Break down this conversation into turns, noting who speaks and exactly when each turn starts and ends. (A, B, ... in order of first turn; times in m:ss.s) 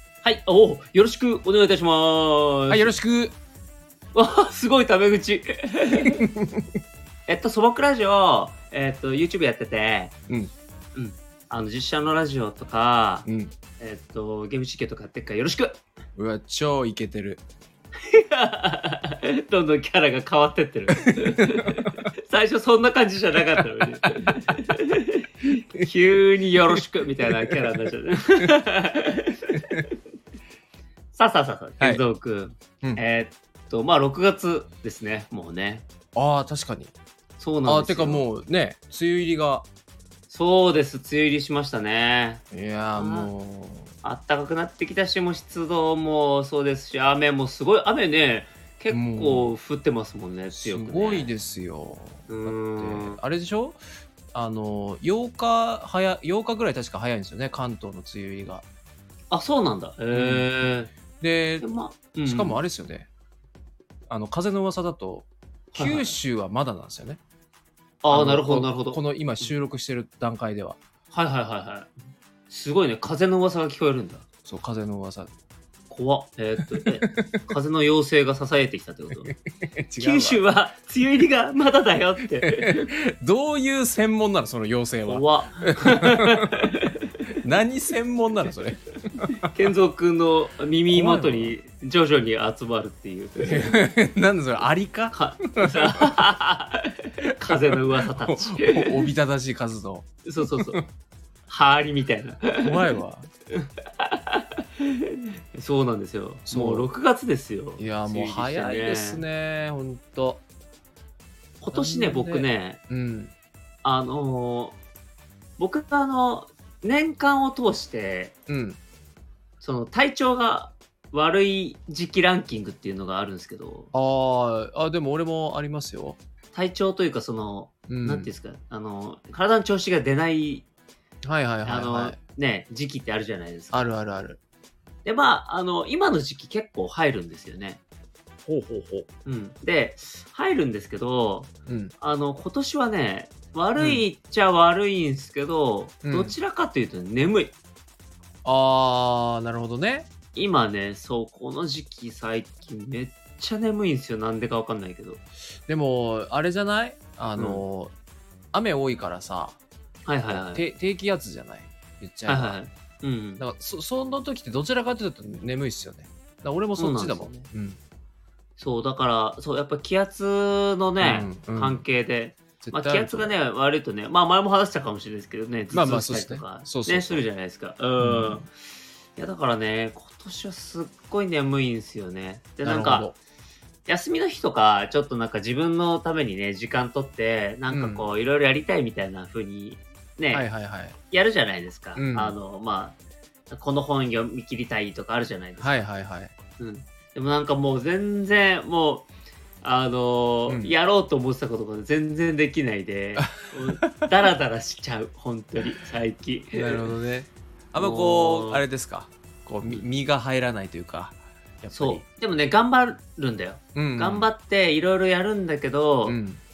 0:00.2-0:02.9 A
0:02.7-0:03.3 B
0:04.1-0:06.2 A
0:06.0-0:06.7 B
0:07.3-0:10.1 A
0:10.9-0:13.3 A
0:13.2-0:13.5 B
0:13.8-0:15.8 A
0:16.2-0:17.4 B
0:18.0-0:29.9 A
0:21.1-0:21.9 B
0:26.8-0:27.5 B
0:31.1-0:35.8 A
0:36.1-0:36.9 B
0:37.4-0:38.3 A
0:37.6-0:39.6 B
0:40.3-0:42.4 A
0:42.5-0:43.9 B
0:43.0-0:43.3 A
0:44.0-0:51.3 A
0:48.9-0:49.5 B
0:50.5-0:53.8 B
0:52.3-0:53.2 A
0:54.3-0:58.6 B
0:59.3-1:00.9 A
1:00.1-1:00.5 B
1:01.2-1:01.6 B
1:01.6-1:02.6 A
1:02.2-1:03.1 B
1:04.1-1:07.2 B
1:05.7-1:06.2 A
1:08.0-1:09.5 A
1:08.1-1:10.8 B
1:11.1-1:11.9 A
1:12.5-1:14.2 A
1:14.4-1:15.3 B
1:15.9-1:19.3 A
1:17.0-1:17.4 B
1:19.7-1:20.4 B
1:20.0-1:22.9 A
1:22.5-1:26.4 B
1:25.0-1:27.1 A
1:27.4-1:29.5 B
1:29.4-1:33.8 A
1:30.9-1:31.6 B
1:33.4-1:35.9 B
1:35.1-1:39.1 A
1:38.2-1:40.8 B
1:40.2-1:40.8 A
1:41.5-1:42.9 A
1:42.6-1:43.3 B
1:43.6-1:49.2 A
1:46.5-1:46.9 B
1:47.8-1:50.4 B
1:51.6-1:52.8 A
1:51.7-1:53.3 B
1:53.8-1:54.8 A
1:55.6-1:58.3 A
1:58.5-1:58.8 B
1:59.6-2:03.9 A
2:03.9-2:06.2 B
2:06.5-2:10.6 A
2:07.9-2:08.3 B
2:11.2-2:12.2 B
2:11.6-2:13.8 A
2:13.7-2:14.4 B
2:15.0-2:17.8 A
2:18.4-2:19.1 B
2:19.2-2:27.5 A
2:21.6-2:21.9 B
2:23.8-2:24.0 B
2:26.0-2:26.3 B
2:28.4-2:30.1 B
2:30.3-2:35.2 A
2:35.7-2:37.9 B
2:37.4-2:37.6 A
2:38.5-2:39.6 B
2:40.0-2:40.6 A
2:40.2-2:42.6 B
2:42.3-2:43.4 A
2:43.4-2:47.8 B
2:46.8-2:47.5 A
2:48.6-2:58.5 A
2:51.0-2:51.8 B
2:52.6-2:53.3 B
2:55.7-2:57.2 B
2:58.0-2:58.4 B
2:59.2-3:03.1 A
3:02.6-3:03.2 B
3:03.8-3:10.5 A
3:07.7-3:08.1 B
3:10.3-3:11.0 B
3:11.1-3:13.0 A
3:11.9-3:12.4 B
3:13.5-3:15.8 A
3:15.6-3:16.3 B
3:16.6-3:19.1 A
3:19.6-3:26.9 A
3:20.5-3:20.7 B
3:23.2-3:24.0 B
3:26.5-3:32.0 B
3:27.8-3:28.6 A
3:31.7-3:36.2 A
3:33.7-3:34.3 B
3:36.0-3:36.4 B